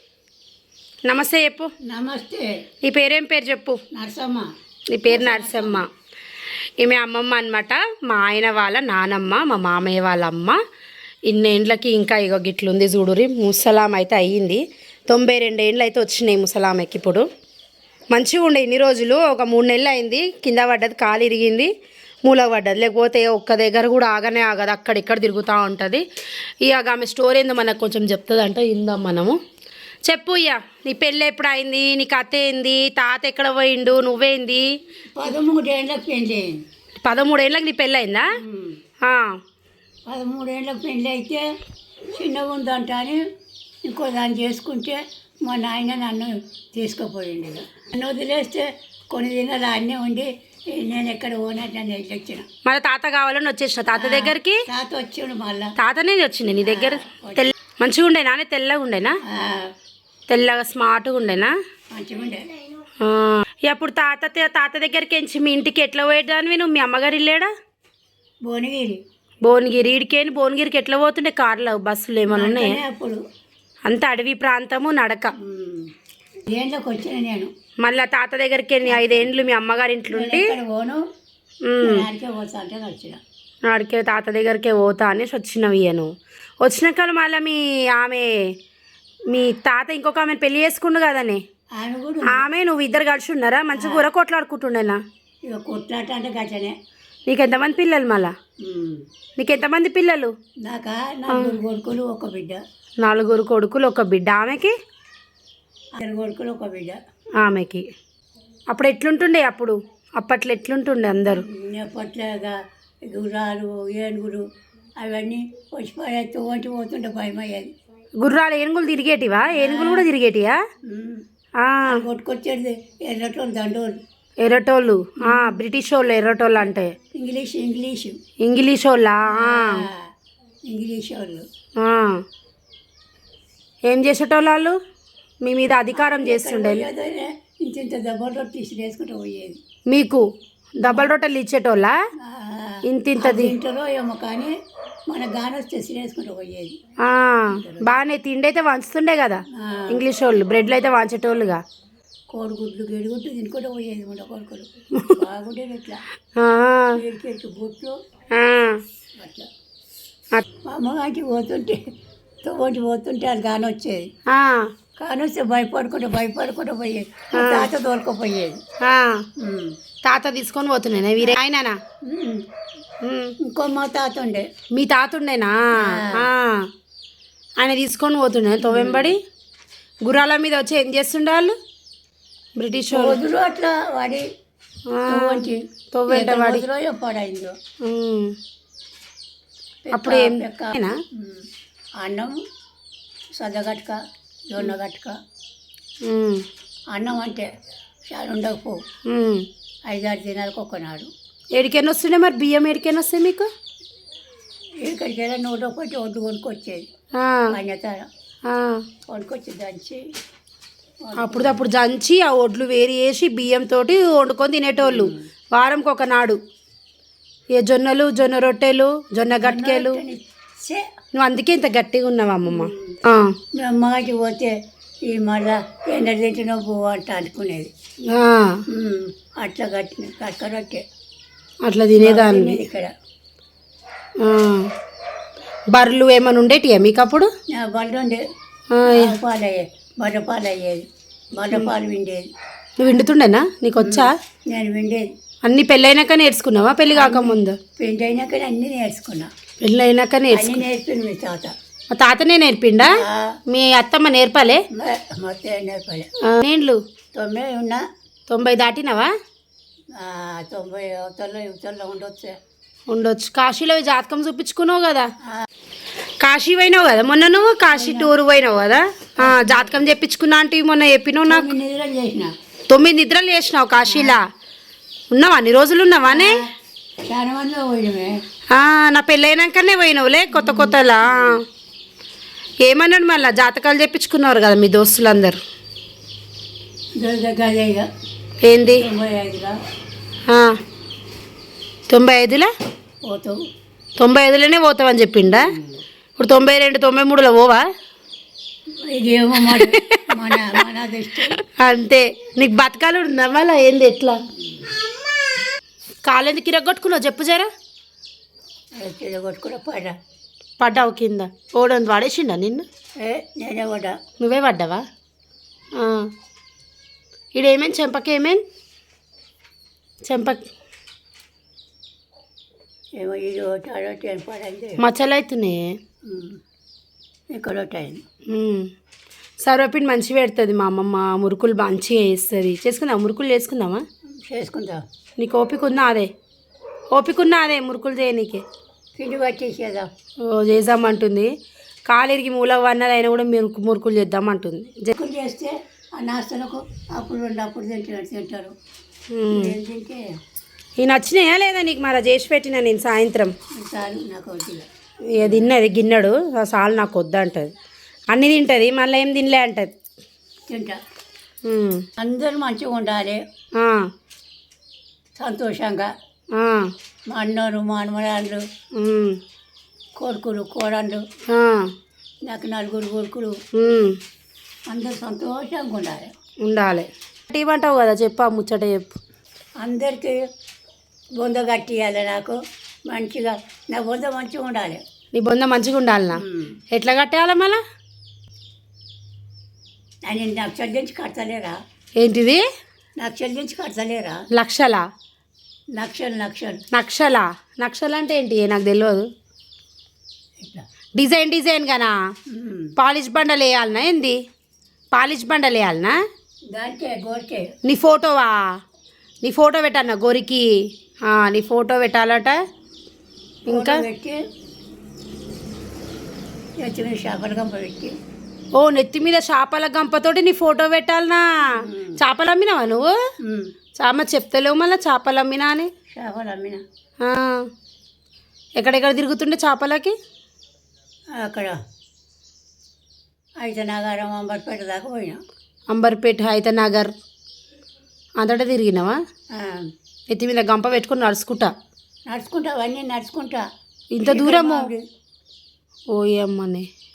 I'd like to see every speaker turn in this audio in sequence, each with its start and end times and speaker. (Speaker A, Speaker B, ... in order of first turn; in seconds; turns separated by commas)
Speaker A: 1.1-1.7, Speaker B: 1.9-2.5, Speaker A: 2.9-3.8, Speaker B: 3.9-4.5, Speaker A: 4.9-5.9, Speaker B: 5.1-5.9, Speaker A: 6.8-10.6, Speaker A: 11.3-17.2, Speaker A: 18.1-21.7, Speaker A: 22.2-26.0, Speaker A: 26.6-29.4, Speaker A: 30.1-34.7, Speaker B: 35.2-36.6, Speaker A: 37.0-38.3, Speaker B: 38.4-38.8, Speaker A: 39.0-39.4, Speaker B: 40.1-41.5, Speaker B: 42.1-43.2, Speaker B: 43.8-52.5, Speaker A: 52.6-54.6, Speaker B: 54.0-55.7, Speaker A: 55.8-59.2, Speaker B: 56.6-57.5, Speaker B: 59.3-59.7, Speaker A: 60.3-61.5, Speaker B: 61.9-62.5, Speaker A: 63.0-67.5, Speaker B: 68.5-69.0, Speaker A: 69.5-72.8, Speaker B: 72.3-73.2, Speaker A: 73.9-75.3, Speaker B: 75.4-75.9, Speaker B: 76.5-77.5, Speaker A: 77.8-80.5, Speaker B: 78.8-79.4, Speaker B: 80.1-81.0, Speaker A: 81.7-82.1, Speaker B: 81.8-83.2, Speaker A: 83.7-88.4, Speaker A: 89.3-91.4, Speaker B: 91.8-92.5, Speaker A: 92.2-95.0, Speaker B: 93.8-94.1, Speaker B: 95.5-96.8, Speaker A: 97.3-98.3, Speaker B: 98.6-99.0, Speaker A: 99.4-100.3, Speaker B: 100.7-102.6, Speaker A: 101.3-101.6, Speaker A: 103.0-104.8, Speaker B: 106.0-107.0, Speaker A: 107.4-107.8, Speaker A: 108.7-111.5, Speaker B: 111.3-114.5, Speaker B: 115.0-117.7, Speaker A: 118.2-120.6, Speaker B: 119.5-120.1, Speaker B: 120.8-121.2, Speaker A: 121.6-122.0, Speaker B: 121.9-124.0, Speaker A: 124.4-127.0, Speaker B: 125.2-125.6, Speaker B: 127.1-128.2, Speaker A: 128.4-129.8, Speaker B: 129.3-130.1, Speaker B: 130.7-131.5, Speaker A: 131.8-132.2, Speaker A: 133.8-134.8, Speaker A: 135.4-136.9, Speaker B: 135.9-139.6, Speaker A: 139.9-140.2, Speaker A: 140.8-142.0, Speaker B: 142.2-144.5, Speaker A: 142.9-143.6, Speaker B: 145.1-146.8, Speaker A: 147.0-151.6, Speaker B: 147.5-147.9, Speaker B: 149.5-150.0, Speaker B: 152.3-156.0, Speaker A: 154.9-155.2, Speaker A: 156.4-157.0, Speaker B: 156.9-158.0, Speaker A: 158.3-158.8, Speaker B: 159.2-159.5, Speaker B: 160.7-161.8, Speaker B: 162.4-164.1, Speaker A: 164.3-164.7, Speaker B: 165.0-168.6, Speaker A: 167.3-167.7, Speaker A: 168.8-169.3, Speaker B: 169.4-169.8, Speaker A: 170.0-171.8, Speaker B: 172.0-172.5, Speaker A: 173.0-173.3, Speaker B: 173.4-174.5, Speaker A: 174.7-176.7, Speaker B: 175.8-176.3, Speaker A: 177.6-179.2, Speaker B: 178.6-179.2, Speaker A: 180.1-181.6, Speaker A: 182.6-183.2, Speaker B: 182.9-184.3, Speaker A: 184.9-186.7, Speaker B: 185.1-187.6, Speaker A: 187.8-188.4, Speaker B: 189.9-191.5, Speaker A: 189.9-191.0, Speaker B: 192.0-192.4, Speaker B: 193.4-194.0, Speaker B: 194.5-195.1, Speaker A: 196.0-196.4, Speaker B: 196.9-197.5, Speaker B: 198.1-198.8, Speaker A: 199.1-199.5, Speaker B: 199.9-201.1, Speaker A: 201.6-203.5, Speaker B: 204.8-206.9, Speaker A: 207.2-207.5, Speaker B: 207.5-208.1, Speaker A: 208.5-208.8, Speaker B: 209.1-210.1, Speaker B: 211.1-211.6, Speaker A: 211.2-216.4, Speaker B: 214.8-215.2, Speaker A: 217.5-220.0, Speaker B: 219.4-220.9, Speaker A: 221.1-223.3, Speaker B: 222.5-223.0, Speaker B: 223.5-227.7, Speaker A: 228.1-228.7, Speaker B: 228.7-230.8, Speaker A: 231.6-232.6, Speaker B: 232.0-232.9, Speaker A: 234.2-234.7, Speaker A: 235.7-237.3, Speaker B: 237.5-238.2, Speaker A: 238.7-239.2, Speaker B: 238.8-242.3, Speaker A: 242.8-244.1, Speaker B: 243.8-245.1, Speaker A: 245.4-247.6, Speaker B: 246.9-249.3, Speaker A: 249.6-250.6, Speaker B: 250.3-251.5, Speaker A: 251.9-254.6, Speaker B: 252.8-253.4, Speaker B: 254.7-256.1, Speaker A: 256.2-256.8, Speaker B: 257.1-257.8, Speaker A: 258.3-259.1, Speaker B: 259.9-262.4, Speaker A: 262.9-265.1, Speaker A: 266.2-271.5, Speaker B: 267.7-268.1, Speaker B: 269.2-269.8, Speaker B: 271.3-272.3, Speaker A: 272.7-274.2, Speaker B: 273.8-274.2, Speaker A: 275.1-276.4, Speaker B: 276.1-276.5, Speaker B: 277.1-278.2, Speaker A: 278.5-281.4, Speaker B: 280.3-281.4, Speaker A: 282.6-285.4, Speaker B: 287.0-287.9, Speaker A: 288.4-288.9, Speaker B: 288.8-289.6, Speaker A: 290.3-290.6, Speaker A: 291.9-292.5, Speaker B: 293.0-293.4, Speaker A: 294.0-295.5, Speaker B: 295.3-295.8, Speaker A: 296.2-297.7, Speaker B: 298.9-301.4, Speaker A: 299.4-300.6, Speaker A: 301.2-304.2, Speaker B: 304.4-304.7, Speaker A: 306.1-307.5, Speaker B: 308.8-310.0, Speaker A: 310.6-312.6, Speaker B: 313.0-314.0, Speaker A: 314.2-314.9, Speaker A: 315.8-316.1, Speaker A: 317.4-318.4, Speaker A: 320.1-320.4, Speaker B: 323.0-324.8, Speaker A: 324.8-325.8, Speaker B: 326.0-326.4, Speaker B: 327.3-328.0, Speaker A: 328.3-328.7, Speaker A: 329.4-333.8, Speaker B: 334.2-334.8, Speaker A: 335.2-336.1, Speaker A: 336.9-338.4, Speaker B: 339.0-339.9, Speaker A: 340.2-341.3, Speaker A: 341.9-344.9, Speaker B: 344.9-348.5, Speaker A: 349.1-349.6, Speaker B: 349.3-350.0, Speaker A: 350.8-353.3, Speaker B: 353.6-354.7, Speaker A: 355.1-357.5, Speaker B: 355.2-355.5, Speaker A: 358.1-359.7, Speaker B: 360.5-360.8, Speaker A: 361.4-361.9, Speaker B: 362.0-363.2, Speaker A: 363.6-363.9, Speaker B: 365.2-365.9, Speaker A: 366.4-366.7, Speaker B: 367.1-368.4, Speaker A: 368.7-369.2, Speaker B: 370.0-371.1, Speaker A: 371.3-371.7, Speaker B: 372.3-373.4, Speaker A: 373.5-374.0, Speaker B: 374.7-376.1, Speaker A: 376.4-379.0, Speaker B: 379.6-380.2, Speaker B: 381.2-384.8, Speaker A: 385.1-387.6, Speaker B: 386.1-386.6, Speaker B: 390.1-391.6, Speaker A: 392.0-392.4, Speaker B: 393.0-394.2, Speaker A: 394.3-394.9, Speaker B: 395.8-396.6, Speaker A: 396.7-399.1, Speaker B: 400.4-400.6, Speaker A: 401.0-401.9, Speaker B: 402.3-402.7, Speaker A: 402.8-404.2, Speaker A: 404.9-406.0, Speaker B: 406.5-407.5, Speaker A: 407.6-408.5, Speaker A: 409.2-410.5, Speaker A: 411.1-412.4, Speaker A: 413.5-413.8, Speaker B: 413.5-414.2, Speaker B: 416.6-417.9, Speaker A: 418.6-422.9, Speaker B: 421.5-422.0, Speaker B: 423.2-423.5, Speaker A: 423.8-425.7, Speaker B: 425.9-426.6, Speaker A: 427.0-427.5, Speaker A: 428.6-430.0, Speaker B: 431.2-431.6, Speaker B: 433.4-435.2, Speaker A: 435.7-436.9, Speaker A: 438.2-439.0, Speaker B: 439.3-439.7, Speaker A: 440.1-441.5, Speaker B: 442.1-443.5, Speaker A: 443.9-444.7, Speaker B: 444.0-444.9, Speaker A: 445.9-446.7